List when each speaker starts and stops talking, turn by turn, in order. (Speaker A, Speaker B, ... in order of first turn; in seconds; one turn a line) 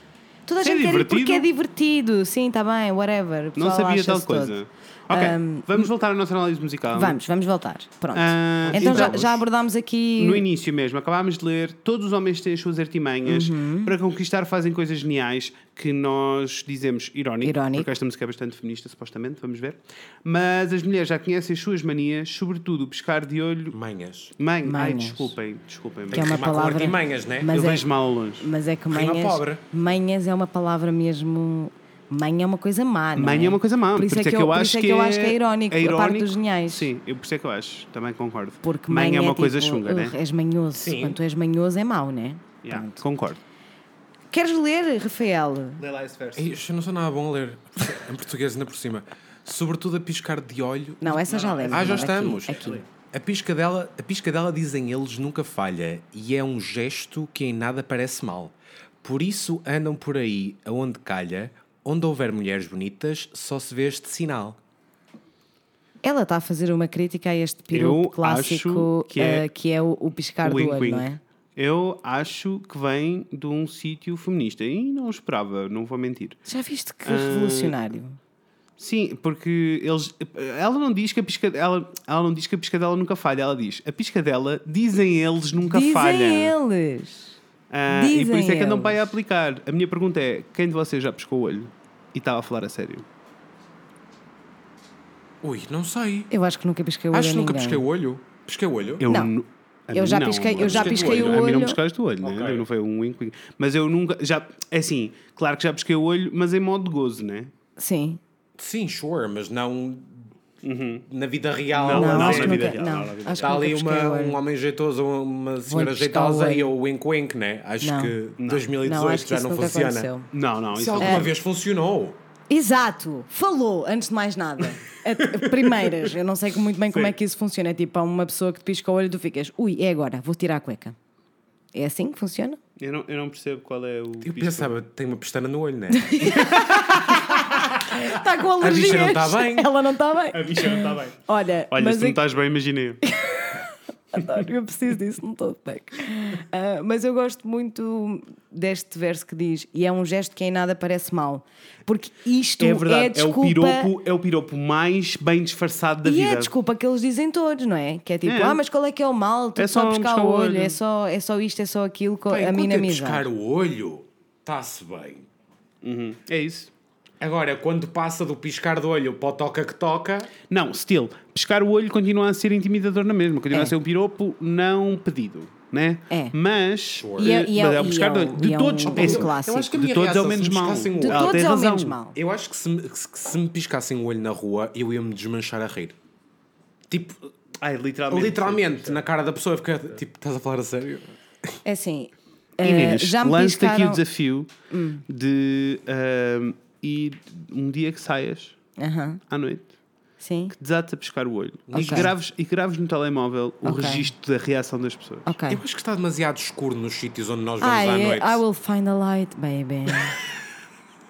Speaker A: 0.5-4.6
Speaker B: 0.6-1.5
Speaker B: 3.6-7.2
Speaker A: 5.1-5.9
Speaker A: 6.9-10.4
Speaker B: 8.1-9.4
Speaker C: 8.7-9.2
Speaker B: 10.2-23.8
Speaker A: 13.3-13.9
Speaker A: 17.4-17.9
Speaker C: 23.7-24.3
Speaker B: 24.4-26.6
Speaker A: 24.6-25.3
Speaker C: 26.1-27.5
Speaker A: 26.1-27.9
Speaker B: 27.5-28.5
Speaker A: 28.4-36.9
Speaker C: 28.9-29.6
Speaker B: 33.1-40.2
Speaker A: 38.6-43.0
Speaker C: 40.7-41.2
Speaker B: 42.6-43.4
Speaker A: 44.3-45.8
Speaker B: 45.8-46.5
Speaker C: 46.4-64.6
Speaker A: 51.0-52.8
Speaker B: 51.2-52.8
Speaker A: 66.0-71.2
Speaker B: 67.7-69.5
Speaker B: 70.4-76.4
Speaker A: 76.5-78.2
Speaker B: 77.0-77.8
Speaker B: 78.8-86.6
Speaker A: 85.6-89.0
Speaker B: 87.7-93.1
Speaker C: 95.4-96.3
Speaker A: 96.3-97.8
Speaker C: 97.1-99.0
Speaker B: 99.0-107.5
Speaker A: 99.1-99.3
Speaker A: 99.9-101.8
Speaker C: 100.7-101.5
Speaker C: 102.2-102.7
Speaker A: 107.8-108.2
Speaker C: 108.6-110.3
Speaker B: 110.6-111.0
Speaker C: 111.0-112.8
Speaker B: 111.7-113.6
Speaker A: 111.9-114.4
Speaker C: 113.4-120.1
Speaker A: 115.7-116.7
Speaker A: 117.8-118.2
Speaker B: 118.4-118.7
Speaker A: 118.8-120.3
Speaker B: 120.3-121.3
Speaker C: 120.7-122.2
Speaker A: 121.0-121.3
Speaker A: 122.5-131.0
Speaker B: 125.5-125.9
Speaker B: 126.9-127.2
Speaker A: 131.7-132.6
Speaker B: 132.8-134.7
Speaker C: 134.2-136.4
Speaker A: 136.0-142.2
Speaker B: 136.4-138.0
Speaker C: 138.6-139.7
Speaker B: 140.3-141.2
Speaker B: 141.7-143.0
Speaker A: 143.1-153.9
Speaker B: 152.6-156.5
Speaker A: 156.1-163.3
Speaker B: 158.2-158.6
Speaker B: 159.6-160.8
Speaker C: 162.3-165.3
Speaker B: 165.8-166.7
Speaker C: 167.2-170.3
Speaker B: 170.5-182.0
Speaker A: 176.1-176.3
Speaker C: 177.0-177.4
Speaker A: 177.2-179.7
Speaker C: 178.9-181.6
Speaker A: 181.0-182.2
Speaker C: 182.2-185.9
Speaker C: 186.9-187.2
Speaker B: 187.6-189.1
Speaker C: 188.1-191.6
Speaker A: 191.7-194.0
Speaker B: 192.6-194.5
Speaker A: 194.7-195.1
Speaker B: 195.1-198.6
Speaker A: 198.8-199.2
Speaker B: 199.3-199.7
Speaker A: 200.2-200.6
Speaker B: 200.6-205.3
Speaker C: 201.7-202.1
Speaker A: 201.7-202.1
Speaker A: 203.6-204.1
Speaker A: 205.3-205.6
Speaker C: 205.5-208.4
Speaker A: 207.6-210.2